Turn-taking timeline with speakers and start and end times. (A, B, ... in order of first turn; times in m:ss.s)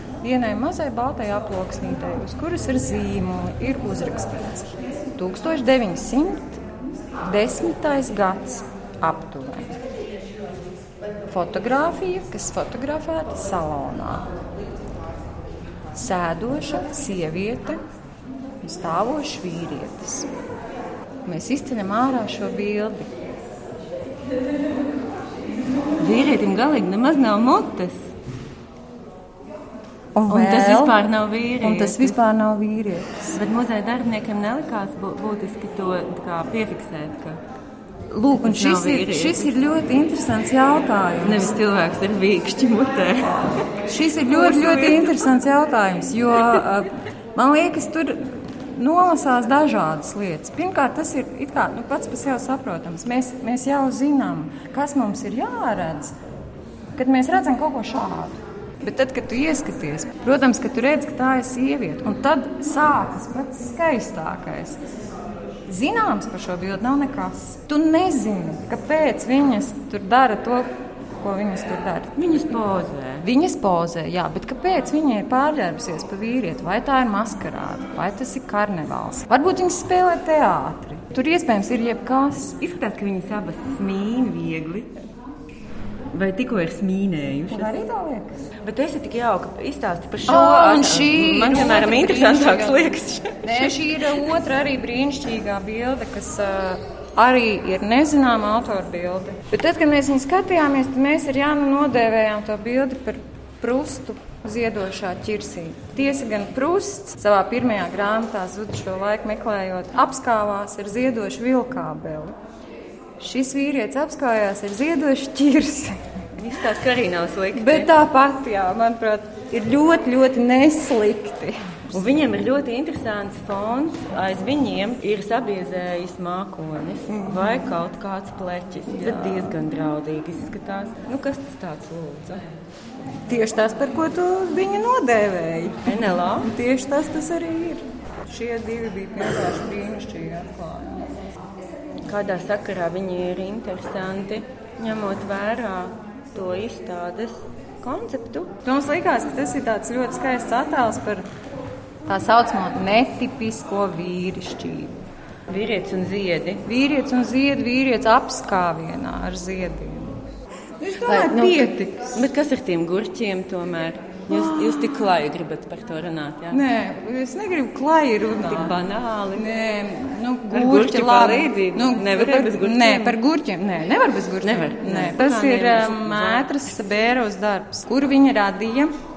0:00.2-0:06.6 A
0:07.2-0:09.8 A
0:11.3-0:14.3 A
0:15.9-0:17.8 A
0:18.6-0:20.3 A
0:21.2-0:23.1 A
0:26.0-0:28.1 B
0:30.1-0:31.0 A
0:30.3-0:32.1 B
0:31.6-0:33.4 A
0:33.3-0:37.4 B
0:38.1-0:41.5 A
0:38.3-0:39.5 B
0:41.2-0:43.6 B
0:43.8-0:56.2 A
0:44.2-0:45.2 B
0:56.9-1:04.8 A
1:05.6-1:12.2 A
1:12.1-1:13.2 B
1:13.2-1:22.6 A
1:22.6-1:24.9 B
1:26.1-1:27.7 B
1:27.5-1:28.4 A
1:28.6-1:33.8 B
1:30.2-1:52.3 A
1:53.2-1:56.0 A
1:56.4-1:57.9 B
1:57.5-2:02.0 A
2:01.9-2:12.5 B
2:09.0-2:09.4 A
2:13.2-2:15.8 A
2:15.8-2:16.5 B
2:16.4-2:21.1 A
2:22.0-2:28.5 B
2:28.6-2:31.2 A
2:32.0-2:34.9 A
2:35.5-2:36.6 B
2:36.6-2:40.1 A
2:40.8-2:42.2 A
2:40.9-2:46.6 B
2:46.5-2:48.7 A
2:48.4-2:49.4 B
2:49.3-2:58.9 A
2:50.5-2:53.2 B
2:54.4-2:56.5 B